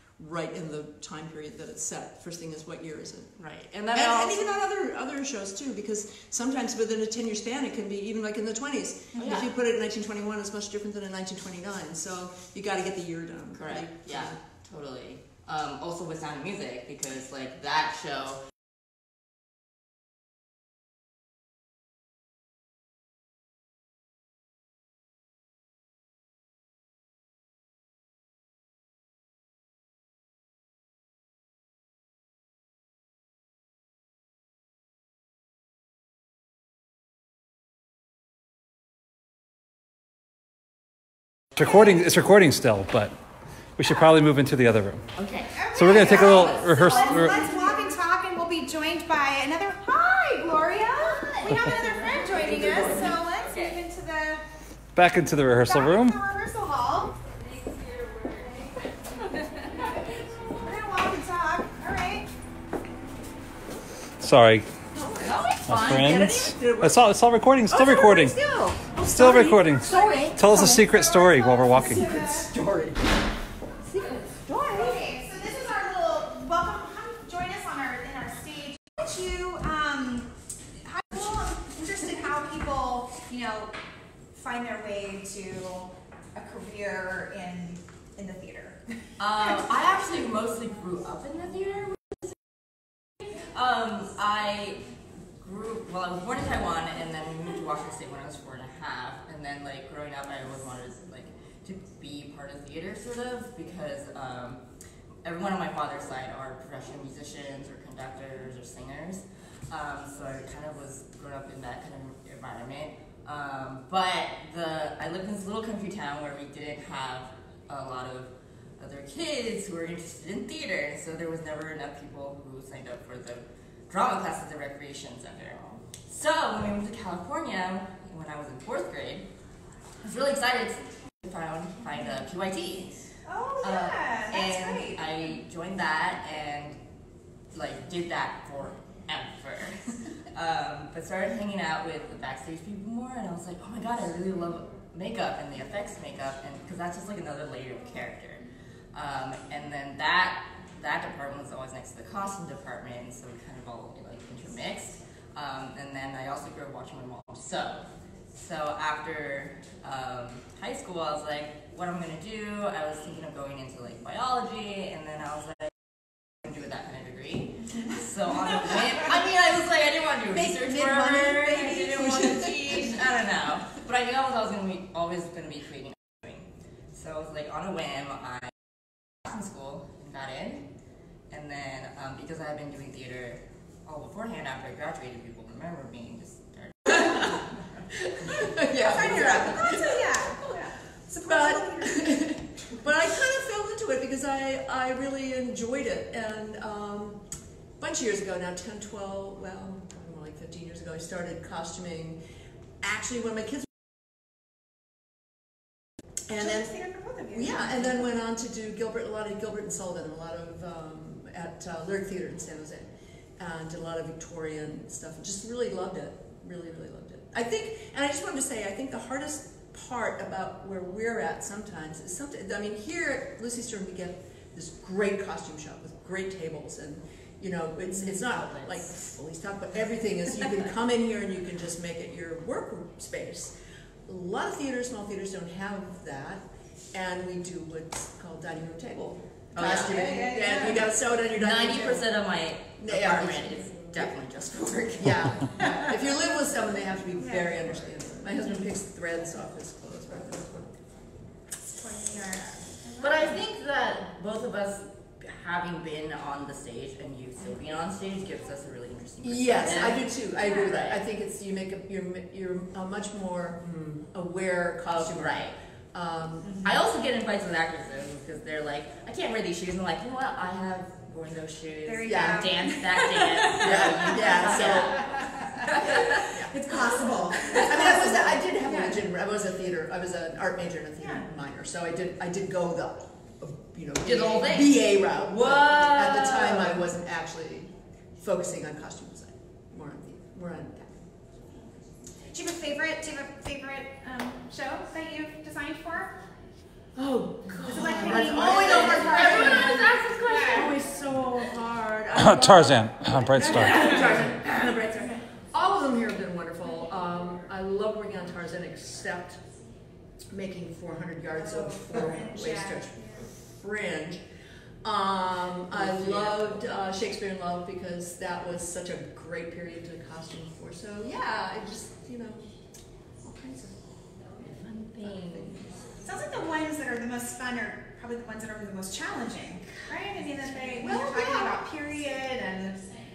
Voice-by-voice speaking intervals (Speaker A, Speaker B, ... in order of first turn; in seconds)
Speaker A: 0.2-3.4, 3.9-14.4, 47.3-47.8, 64.9-67.1, 67.7-73.0, 73.9-74.9, 170.3-173.0, 186.9-187.2, 188.0-190.6, 191.1-197.2, 197.8-202.2, 202.8-203.8, 206.3-206.7, 207.3-233.5, 234.1-242.1, 242.8-250.8, 259.2-266.6, 272.0-272.6, 273.5-275.1, 275.7-291.6, 296.9-309.4, 310.3-314.2, 314.8-322.5, 323.2-323.9, 325.0-325.6, 330.8-331.3
Speaker B: 3.4-4.4, 9.2-9.5, 13.5-18.4, 45.1-47.7, 51.0-53.8, 65.2-66.1, 89.2-92.4, 93.5-94.9, 95.4-104.6, 105.2-129.3, 130.0-133.1, 133.6-136.8, 137.5-165.8, 166.3-180.7, 181.3-187.8, 227.8-229.1, 239.5-240.6, 241.2-245.9, 252.4-261.0, 264.9-265.6, 266.6-278.2, 284.0-286.8, 298.0-300.8, 315.7-316.6, 324.4-325.8
Speaker C: 41.5-43.1, 43.8-45.1, 45.7-47.5, 54.9-56.2, 64.2-64.7, 65.7-68.4, 69.1-72.0, 302.2-303.9
Speaker D: 45.5-54.4, 55.6-57.1, 60.6-62.3, 69.9-70.2, 71.3-72.5, 74.7-80.3, 80.8-83.7, 84.3-88.8, 133.2-135.0, 188.8-192.4, 206.3-207.7, 239.8-240.8, 247.2-247.6, 251.8-253.4, 266.4-266.7, 271.8-274.8, 276.7-278.1, 278.6-279.0, 281.0-281.2, 292.3-296.2, 297.6-300.7, 303.5-304.1, 311.4-313.2, 326.0-332.8